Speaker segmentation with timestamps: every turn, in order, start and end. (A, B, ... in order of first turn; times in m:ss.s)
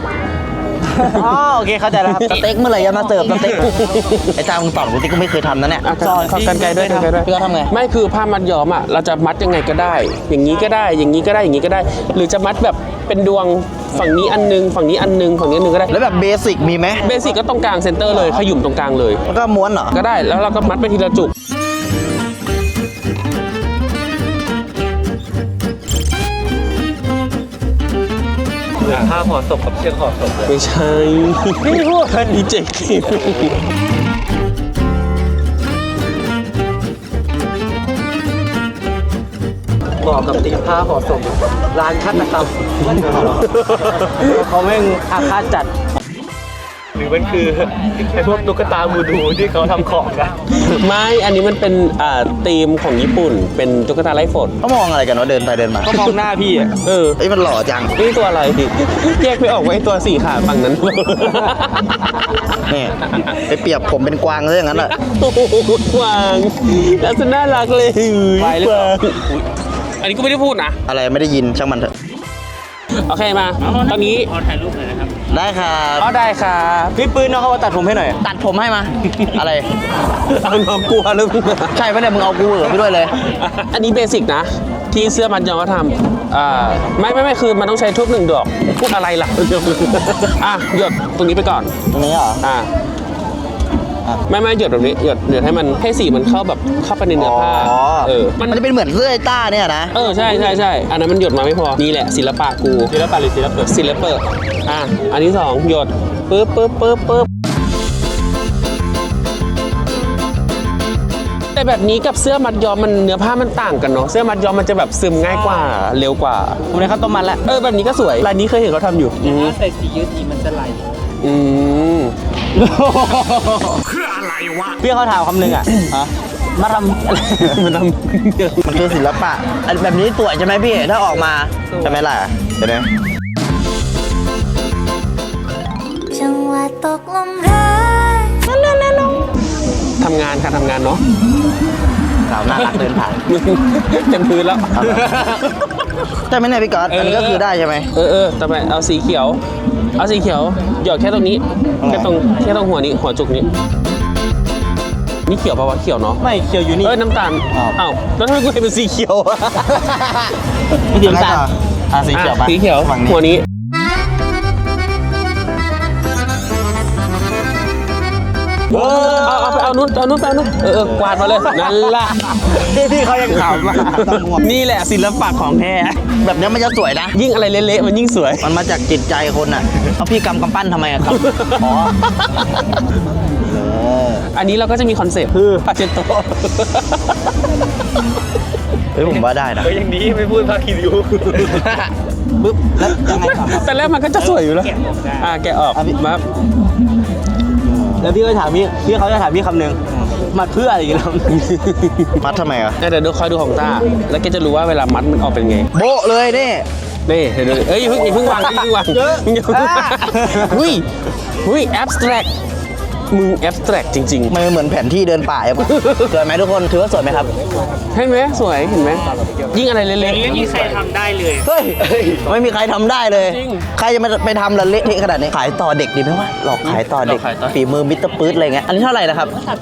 0:00.9-0:02.4 A
0:02.3-0:03.7 B
0:03.4-0:04.3 C
0:04.3-0:07.7 B
0:05.8-0:15.9 C
0:15.9-0:17.0 B
0:17.0-0:19.2 C
0:19.3-0:20.0 B
0:19.9-0:21.3 C
0:28.8-0:30.5 D
0:30.4-0:33.5 C
0:31.8-0:32.1 D
0:40.0-0:43.4 D
0:42.9-0:43.3 A
0:44.2-0:45.7 A
0:47.0-0:50.3 D
0:50.6-0:54.6 C
0:54.6-0:56.1 B
0:55.8-0:56.7 A
0:56.8-0:57.2 C
0:57.2-0:57.9 B
0:58.0-1:01.9 C
1:02.7-1:04.9 B
1:04.7-1:09.3 C
1:08.4-1:09.1 A
1:10.0-1:10.8 C
1:10.9-1:11.9 B
1:13.0-1:14.3 C
1:15.3-1:16.1 B
1:16.0-1:17.0 C
1:16.9-1:18.2 A
1:18.2-1:19.6 B
1:20.3-1:21.7 C
1:21.7-1:23.1 B
1:23.4-1:31.7 C
1:31.9-1:32.4 B
1:32.4-1:32.7 C
1:34.3-1:38.6 C
1:37.1-1:39.9 B
1:39.9-1:42.9 C
1:43.0-1:43.5 D
1:43.6-1:47.3 C
1:51.5-1:56.6 C
1:56.7-1:57.4 A
1:57.4-1:59.6 C
1:59.2-2:00.9 D
2:01.2-2:02.1 C
2:02.5-2:03.8 A
2:04.8-2:05.7 A
2:06.5-2:07.6 A
2:07.4-2:08.7 C
2:08.6-2:12.9 B
2:16.1-2:18.4 E
2:20.0-2:21.0 C
2:22.2-2:23.2 B
2:22.6-2:25.3 C
2:24.7-2:25.0 B
2:26.3-2:27.9 B
2:26.9-2:27.4 C
2:27.9-2:29.4 C
2:30.0-2:33.5 C
2:31.8-2:32.1 B
2:35.3-2:36.2 C
2:36.2-2:36.9 A
2:36.8-2:39.8 C
2:39.8-2:40.3 A
2:40.9-2:41.5 A
2:41.0-2:43.2 B
2:42.1-2:43.4 C
2:48.7-2:52.2 C
2:48.7-2:49.6 A
2:51.5-2:54.0 A
2:53.9-2:54.4 B
2:54.0-2:56.0 C
2:56.2-2:57.2 B
2:57.1-2:58.5 C
2:58.4-3:02.0 B
3:01.2-3:01.5 C
3:03.4-3:04.2 B
3:04.3-3:06.8 C
3:05.3-3:05.6 A
3:08.9-3:09.7 B
3:09.7-3:11.6 D
3:11.3-3:11.6 A
3:12.4-3:13.6 B
3:12.9-3:16.2 C
3:15.7-3:16.0 B
3:18.0-3:19.8 A
3:20.3-3:21.3 A
3:21.3-3:22.1 C
3:22.2-3:22.8 B
3:22.8-3:25.7 C
3:25.7-3:26.6 B
3:27.1-3:30.8 C
3:28.3-3:30.4 A
3:31.4-3:32.3 C
3:33.1-3:34.3 C
3:34.3-3:37.3 B
3:37.9-3:40.8 C
3:41.4-3:49.3 B
3:43.2-3:43.6 C
3:46.6-3:47.5 C